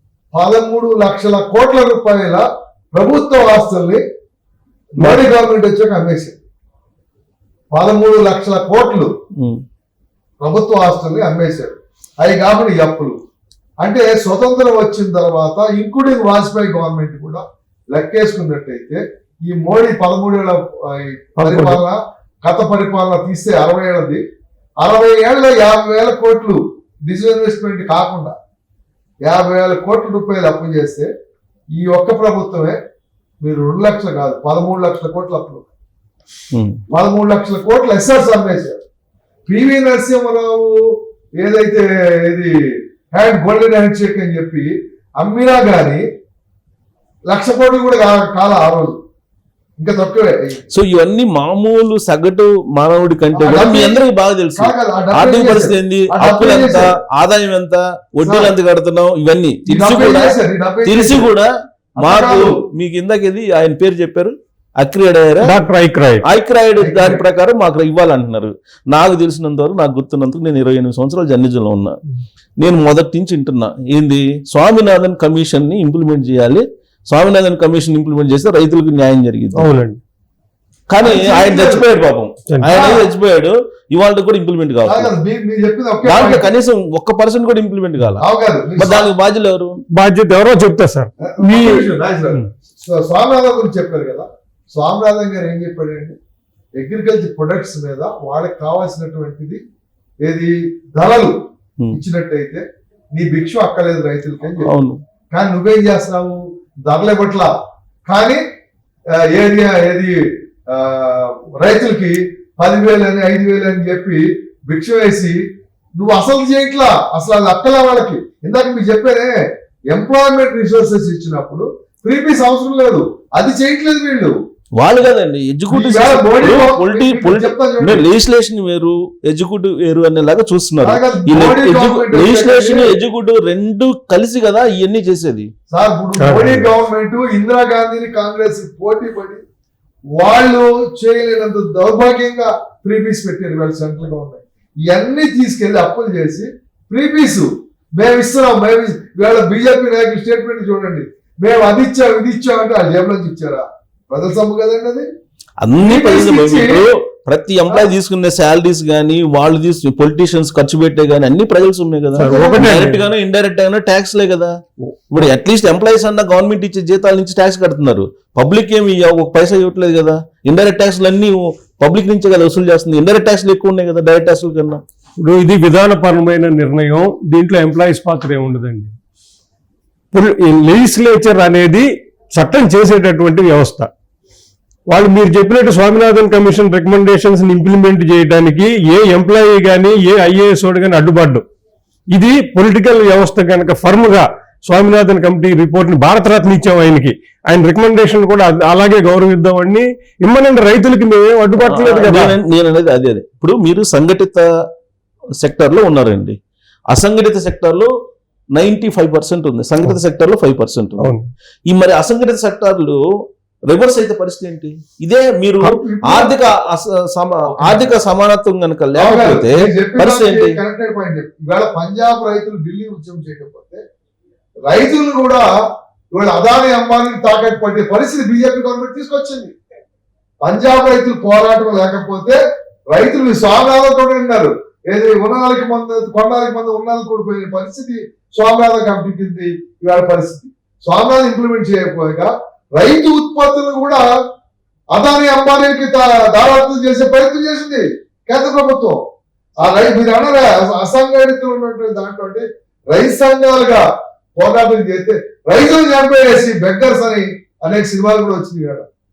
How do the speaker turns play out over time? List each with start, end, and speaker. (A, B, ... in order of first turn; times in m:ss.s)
0:00.3-0:04.0 A
0:05.0-0:06.4 A
0:07.7-0:09.1 A
0:09.4-0:09.6 B
0:10.4-0:13.2 A
0:13.8-0:24.2 A
0:21.4-0:21.8 C
0:24.8-0:28.4 A
0:29.2-0:31.1 A
0:31.8-0:32.8 A
0:33.4-0:35.7 A
0:36.5-0:36.8 B
0:36.9-0:38.8 A
0:39.5-0:40.8 A
0:41.4-0:42.5 A
0:43.1-0:46.0 A
0:47.3-0:49.0 A
0:49.8-0:50.6 A
0:50.7-1:05.6 B
0:53.3-0:54.0 A
0:54.6-0:56.9 A
0:58.2-0:58.5 A
0:59.7-1:01.3 A
1:02.0-1:02.6 A
1:05.4-1:06.2 C
1:06.2-1:12.0 B
1:06.8-1:07.2 A
1:12.6-1:19.6 B
1:19.6-1:20.0 C
1:20.9-1:25.1 B
1:21.0-1:21.8 A
1:22.7-1:23.1 A
1:24.8-1:26.4 A
1:26.0-1:28.2 B
1:28.2-1:29.1 A
1:28.8-1:29.8 B
1:29.9-1:31.9 C
1:31.2-1:36.2 A
1:36.8-1:39.6 A
1:40.2-1:44.7 A
1:44.6-1:45.0 B
1:45.3-1:47.5 A
1:48.1-1:48.4 A
1:49.1-1:50.2 A
1:50.7-1:55.4 A
1:56.0-1:59.4 A
1:59.9-2:04.3 A
2:04.8-2:15.5 B
2:05.7-2:08.0 A
2:10.8-2:12.9 A
2:15.7-2:19.4 A
2:16.2-2:16.7 C
2:20.2-2:35.1 A
2:35.6-2:44.6 B
2:35.8-2:36.8 A
2:42.1-2:43.0 C
2:42.2-2:42.8 A
2:44.8-2:45.2 C
2:45.1-2:54.8 B
2:55.2-2:58.9 C
3:00.1-3:03.9 C
3:04.9-3:11.4 C
3:12.1-3:22.4 C
3:21.6-3:24.4 B
3:25.4-3:26.4 B
3:26.9-3:27.9 B
3:28.5-3:31.1 B
3:31.0-3:31.3 C
3:31.7-3:33.0 B
3:33.7-3:40.6 B
3:35.6-3:36.4 A
3:37.5-3:37.9 A
3:39.0-3:43.8 A
3:44.6-3:45.5 A
3:46.1-3:49.6 A
3:50.4-4:04.0 A
4:04.9-4:09.0 A
4:09.6-4:13.8 A
4:14.4-4:18.9 A